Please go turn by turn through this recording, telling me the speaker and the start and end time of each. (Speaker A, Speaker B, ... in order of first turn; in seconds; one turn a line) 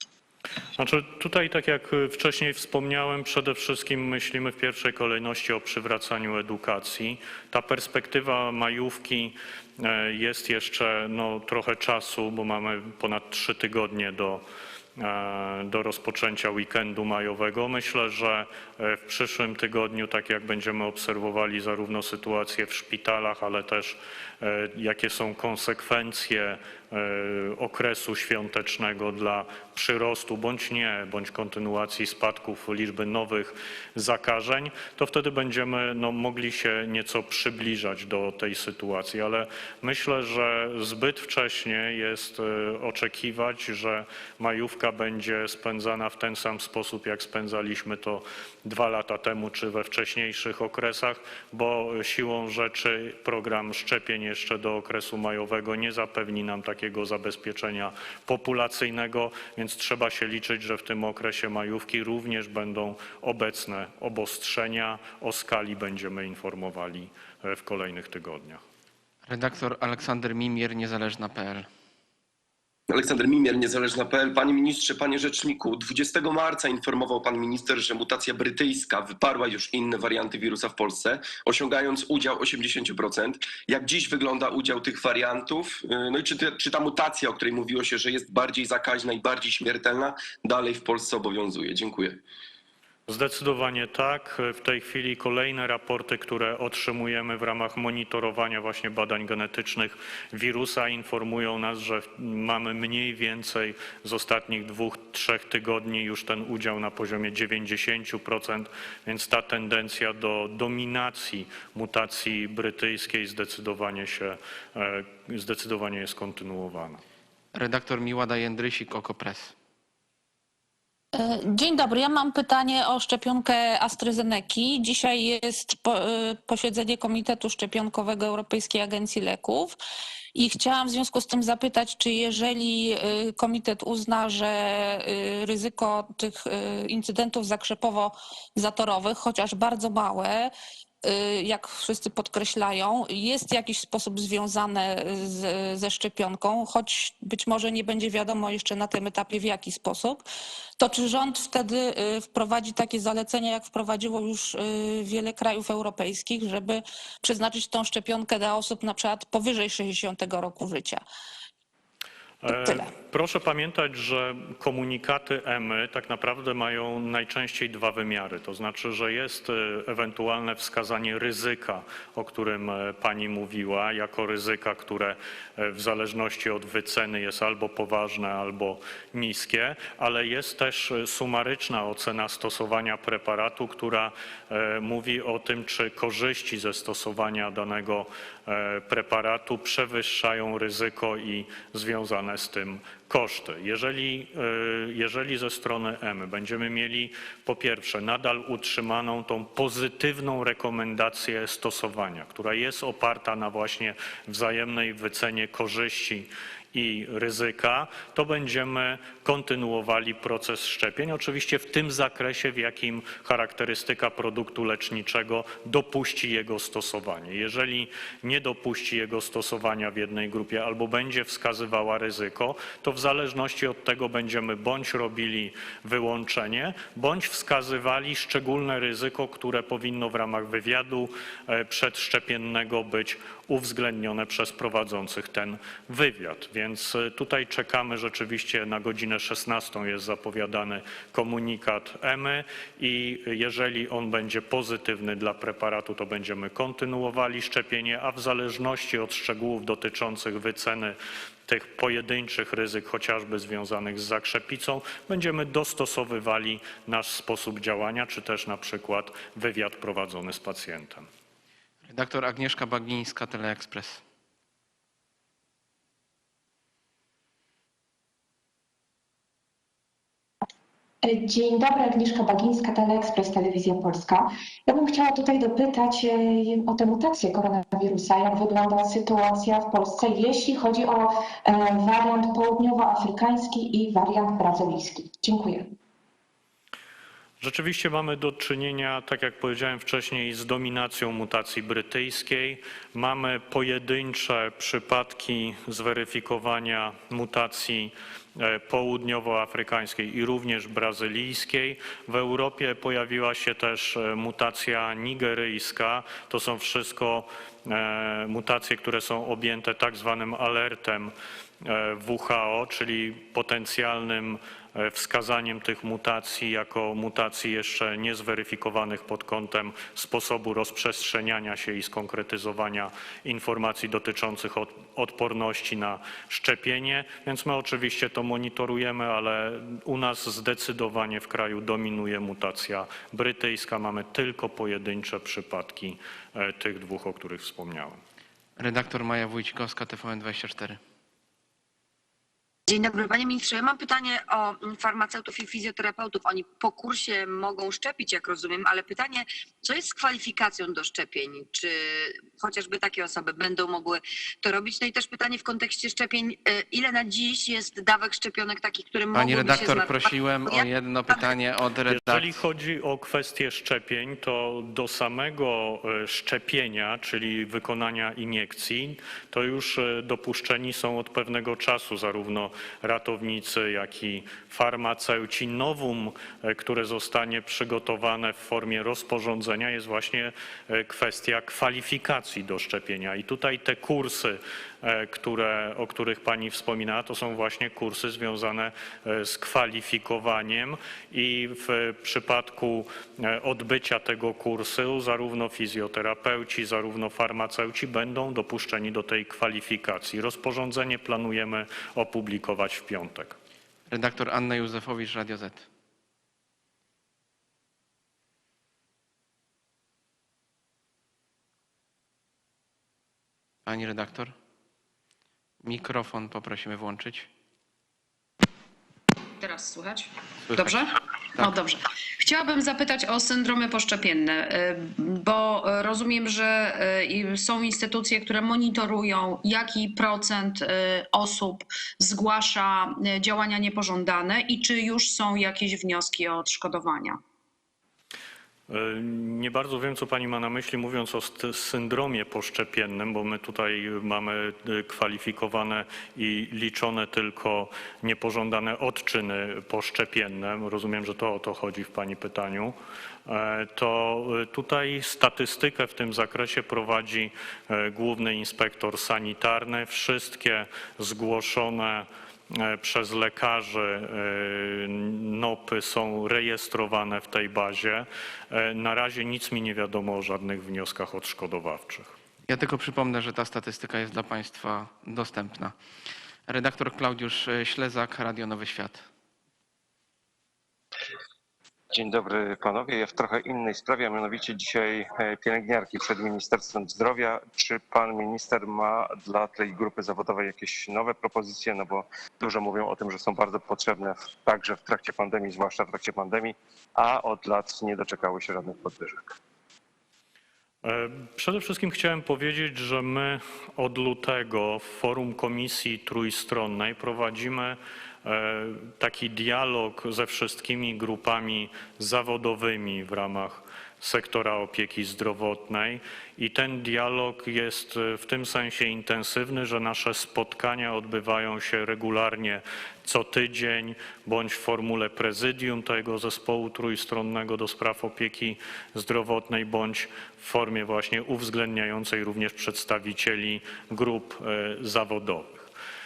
Speaker A: 0.8-14.4
Speaker A: 15.0-68.6
Speaker B: 69.3-71.7
Speaker C: 72.9-92.2
Speaker A: 93.1-117.0
Speaker B: 117.5-119.5
Speaker D: 121.2-129.8
Speaker D: 130.3-140.5
Speaker D: 141.0-150.2
Speaker D: 150.8-161.0
Speaker A: 162.4-261.1
Speaker D: 162.5-162.9
Speaker B: 261.8-264.0
Speaker E: 271.0-285.7
Speaker A: 287.4-338.0
Speaker B: 338.6-340.8
Speaker F: 342.7-361.3
Speaker B: 359.1-362.4
Speaker A: 361.9-403.4
Speaker B: 403.9-405.7
Speaker B: 413.6-414.3
Speaker B: 415.6-417.3
Speaker G: 419.4-437.2
Speaker B: 420.5-420.8
Speaker A: 438.7-452.8
Speaker A: 453.3-472.1
Speaker B: 472.5-475.7
Speaker B: 476.5-479.1
Speaker H: 481.9-499.4
Speaker A: 500.8-535.7